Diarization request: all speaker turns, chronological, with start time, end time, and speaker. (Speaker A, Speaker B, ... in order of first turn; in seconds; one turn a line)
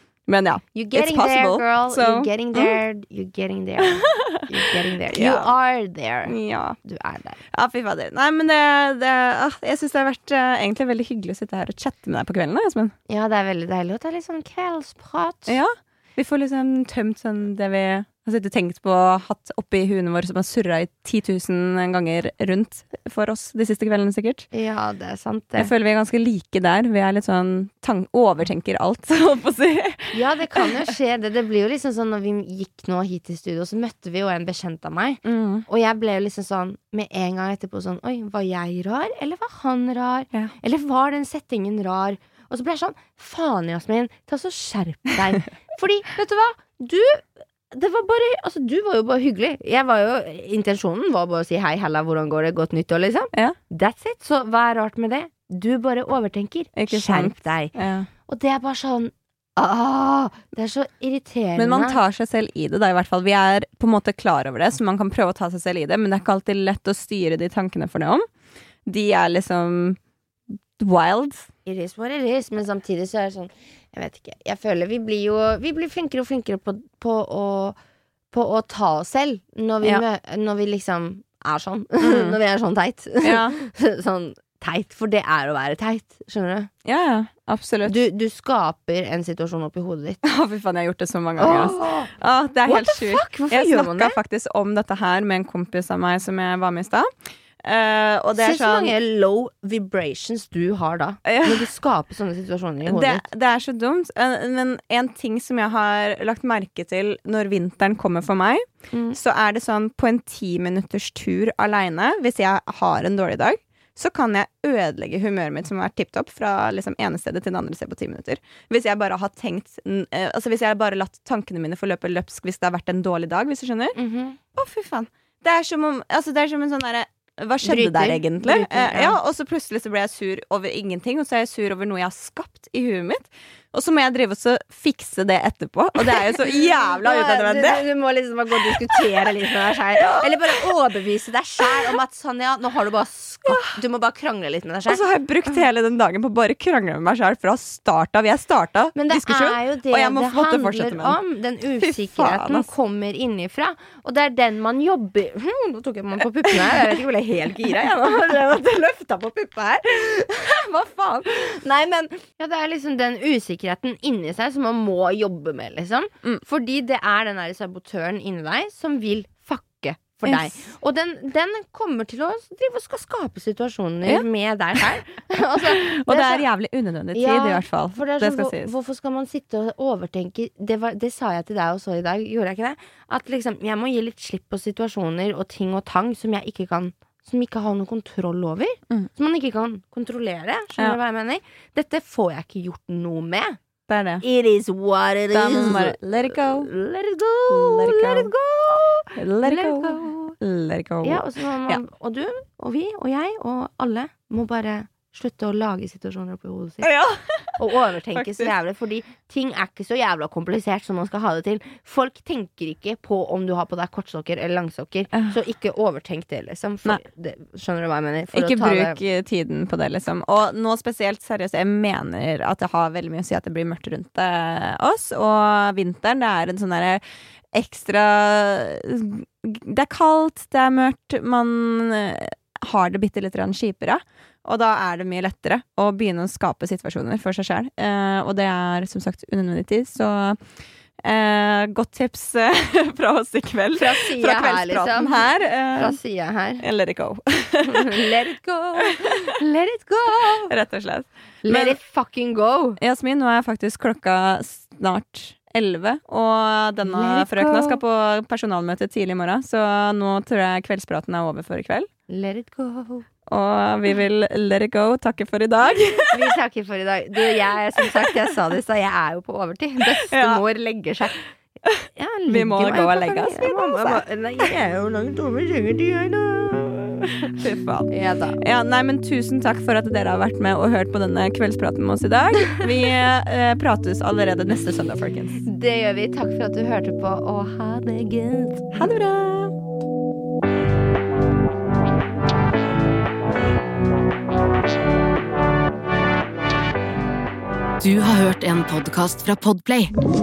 Speaker A: 0.3-2.8
Speaker B: 0.7-6.3
Speaker A: 4.1-4.4
Speaker A: 5.1-5.5
Speaker A: 6.3-6.8
Speaker B: 6.8-7.4
Speaker A: 7.5-12.9
Speaker B: 13.1-15.5
Speaker A: 15.5-24.5
Speaker B: 24.5-25.7
Speaker A: 25.6-30.7
Speaker B: 30.1-57.7
Speaker A: 35.2-35.6
Speaker A: 56.8-58.1
Speaker B: 58.3-62.0
Speaker A: 61.6-68.3
Speaker A: 68.8-70.0
Speaker A: 70.8-71.5
Speaker B: 71.7-77.8
Speaker B: 78.3-86.7
Speaker A: 82.0-82.4
Speaker A: 83.2-83.6
Speaker A: 86.8-88.0
Speaker B: 87.8-90.2
Speaker A: 90.2-97.1
Speaker B: 91.4-92.1
Speaker B: 92.7-94.2
Speaker A: 97.6-98.9
Speaker B: 98.3-103.2
Speaker A: 101.2-101.7
Speaker A: 102.8-124.0
Speaker B: 123.9-124.4
Speaker A: 124.5-137.8
Speaker B: 127.6-129.2
Speaker B: 136.0-136.4
Speaker B: 137.0-145.0
Speaker A: 138.7-138.9
Speaker A: 140.1-140.5
Speaker A: 144.9-151.2
Speaker B: 148.9-176.4
Speaker A: 151.8-152.7
Speaker A: 170.2-170.5
Speaker A: 174.0-174.9
Speaker A: 175.6-178.7
Speaker B: 177.1-193.6
Speaker A: 193.9-194.2
Speaker B: 194.2-200.3
Speaker A: 195.3-196.7
Speaker A: 197.5-198.3
Speaker A: 199.2-201.8
Speaker B: 201.0-206.9
Speaker A: 206.8-207.6
Speaker B: 207.6-219.0
Speaker A: 208.1-208.5
Speaker A: 218.3-227.0
Speaker A: 227.5-240.4
Speaker A: 241.0-246.0
Speaker B: 243.8-246.6
Speaker A: 246.6-248.1
Speaker B: 247.7-250.5
Speaker A: 250.4-251.8
Speaker B: 251.4-252.8
Speaker A: 252.8-261.9
Speaker B: 256.8-257.8
Speaker B: 262.1-263.1
Speaker A: 263.3-266.2
Speaker B: 266.1-271.2
Speaker A: 270.1-270.4
Speaker A: 271.6-274.0
Speaker B: 271.9-277.3
Speaker A: 277.3-285.4
Speaker B: 277.9-278.4
Speaker B: 285.4-288.9
Speaker A: 288.7-289.5
Speaker C: 297.8-299.9